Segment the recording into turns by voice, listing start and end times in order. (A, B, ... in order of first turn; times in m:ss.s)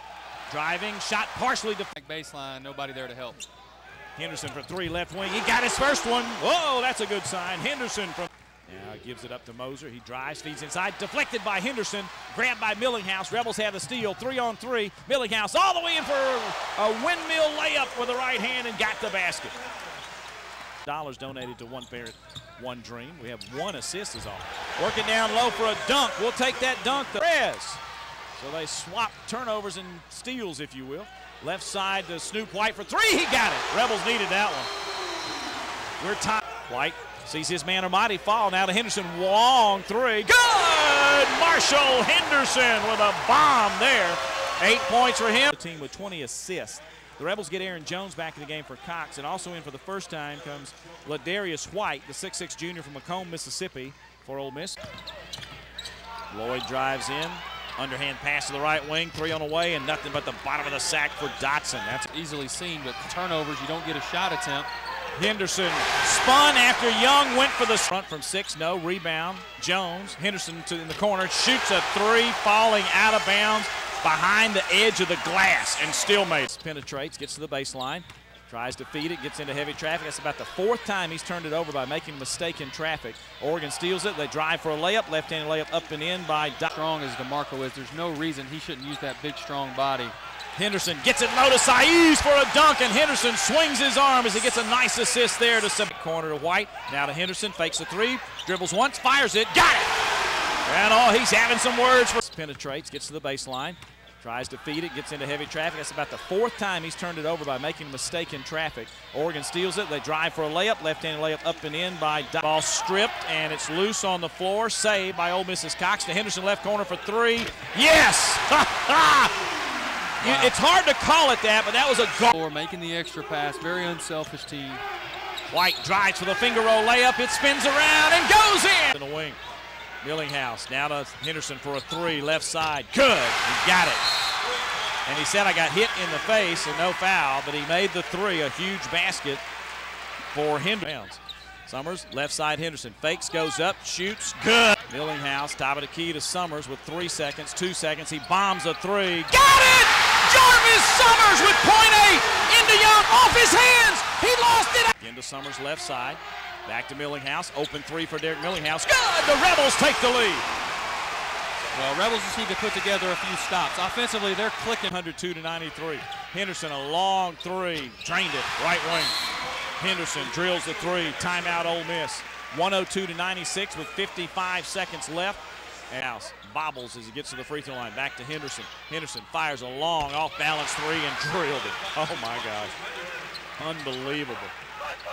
0:00.5-0:01.9 A
0:01.9-0:03.4 B
0:04.2-0:19.5 A
0:20.8-0:27.8 A
0:28.4-0:34.7 A
0:36.0-0:54.8 A
0:56.3-1:02.1 A
1:02.1-1:04.7 B
1:05.1-1:26.7 A
1:26.7-1:30.1 B
1:30.6-1:39.9 A
1:40.6-1:59.3 A
2:00.2-2:00.5 B
2:00.2-2:02.3 A
2:02.3-2:04.8 B
2:05.5-2:09.4 A
2:10.0-2:14.1 A
2:15.0-2:19.4 A
2:20.3-2:40.4 A
2:41.7-2:44.9 B
2:44.9-2:49.2 A
2:49.8-3:02.7 A
3:03.6-3:04.5 A